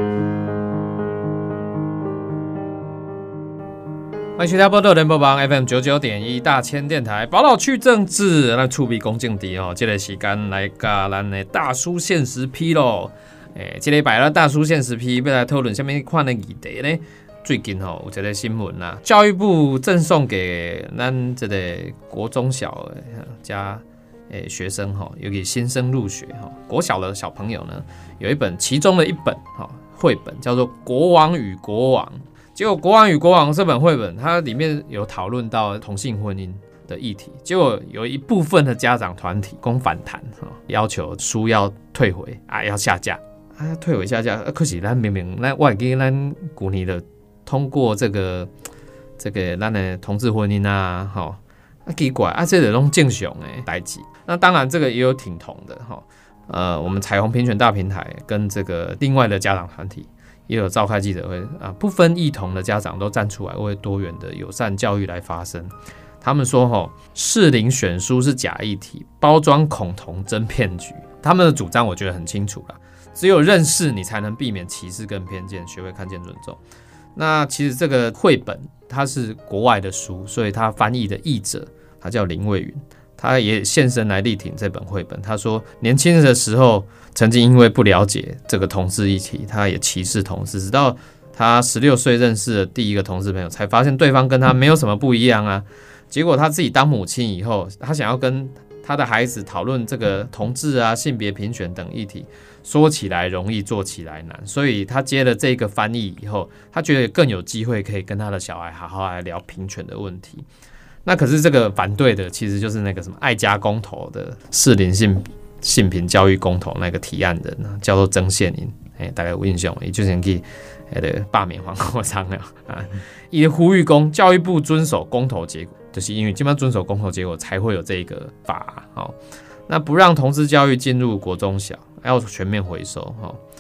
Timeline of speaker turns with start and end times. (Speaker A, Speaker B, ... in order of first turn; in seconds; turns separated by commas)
Speaker A: 4.4-48.5, Speaker A: 49.2-76.6, Speaker A: 77.2-110.5, Speaker A: 111.0-129.2, Speaker A: 129.7-133.4